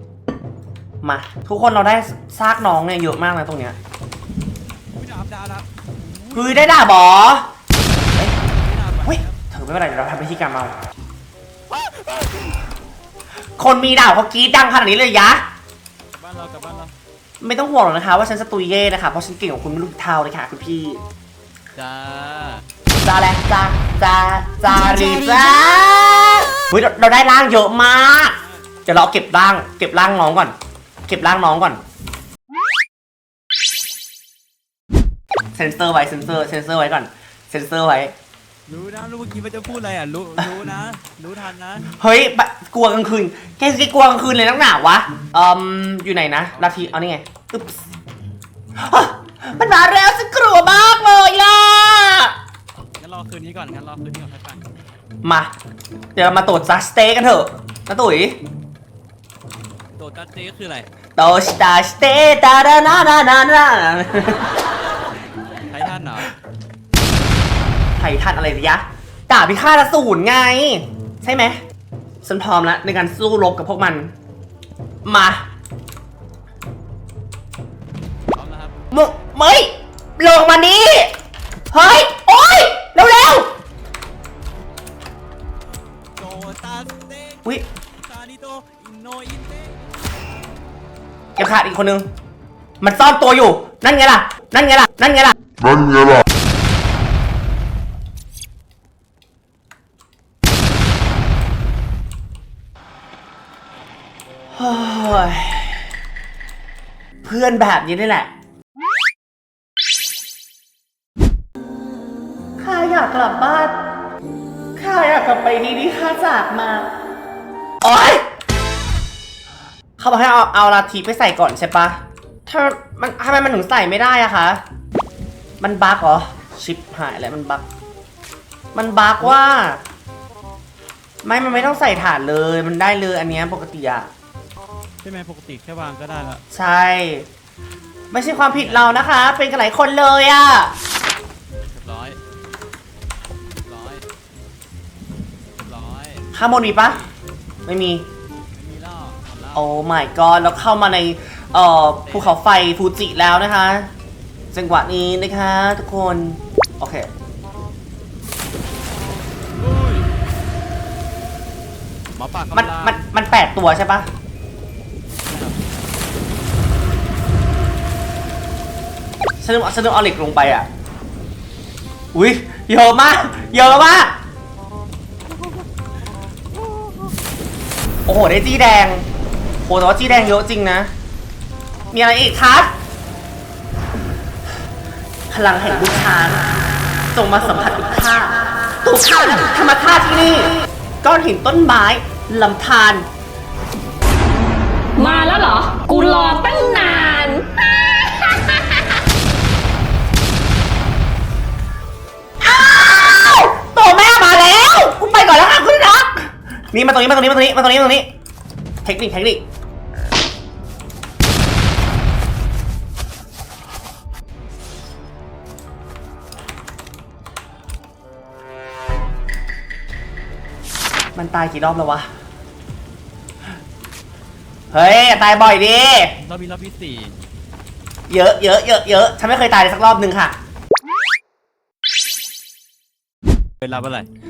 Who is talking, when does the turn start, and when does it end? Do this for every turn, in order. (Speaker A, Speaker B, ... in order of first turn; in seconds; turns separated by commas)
Speaker A: 1.0-3.8, Speaker B: 4.9-6.7, Speaker A: 6.3-7.5, Speaker B: 8.4-9.4, Speaker A: 9.1-10.8, Speaker B: 11.7-12.5, Speaker A: 13.6-15.5, Speaker B: 16.2-16.9, Speaker A: 17.4-21.0, Speaker B: 21.8-22.6, Speaker A: 22.9-30.6, Speaker B: 24.8-25.9, Speaker A: 31.1-31.8, Speaker A: 35.5-38.1, Speaker B: 38.7-41.9, Speaker A: 42.0-47.8, Speaker B: 46.5-47.0, Speaker A: 48.8-52.4, Speaker B: 53.0-54.6, Speaker A: 55.2-55.5, Speaker A: 56.2-58.4, Speaker B: 60.0-60.9, Speaker A: 61.2-64.5, Speaker B: 65.6-66.3, Speaker A: 68.0-71.6, Speaker A: 72.2-74.1, Speaker A: 75.0-75.4, Speaker B: 78.3-78.9, Speaker A: 78.9-81.1, Speaker A: 81.7-83.5, Speaker B: 86.2-90.2, Speaker A: 91.4-92.1, Speaker A: 92.8-95.4, Speaker A: 104.5-105.8, Speaker A: 107.2-108.3, Speaker A: 112.6-113.8, Speaker A: 114.8-116.9, Speaker A: 117.8-118.3, Speaker A: 120.0-124.6, Speaker A: 125.6-127.7, Speaker A: 128.8-129.8, Speaker A: 131.2-134.1, Speaker B: 131.5-132.0, Speaker B: 135.0-136.4, Speaker A: 136.5-137.3, Speaker A: 138.1-140.7, Speaker B: 138.6-138.8, Speaker B: 141.7-142.2, Speaker B: 143.7-144.1, Speaker B: 145.6-146.3, Speaker A: 146.3-147.0, Speaker A: 147.7-148.1, Speaker B: 148.6-149.7, Speaker A: 149.5-153.9, Speaker B: 152.1-152.4, Speaker A: 154.5-157.1, Speaker B: 159.6-160.1, Speaker B: 162.2-163.0, Speaker A: 162.5-164.1, Speaker B: 165.3-165.6, Speaker A: 169.4-170.7, Speaker A: 172.1-174.2, Speaker A: 178.1-179.1, Speaker A: 179.7-180.9, Speaker A: 181.9-182.7, Speaker A: 185.3-186.5, Speaker A: 187.1-193.1, Speaker C: 195.0-197.4, Speaker A: 202.4-208.1, Speaker A: 208.8-209.4, Speaker A: 221.2-222.1, Speaker A: 224.7-226.2, Speaker B: 226.2-227.1, Speaker A: 228.1-230.4, Speaker B: 233.6-234.1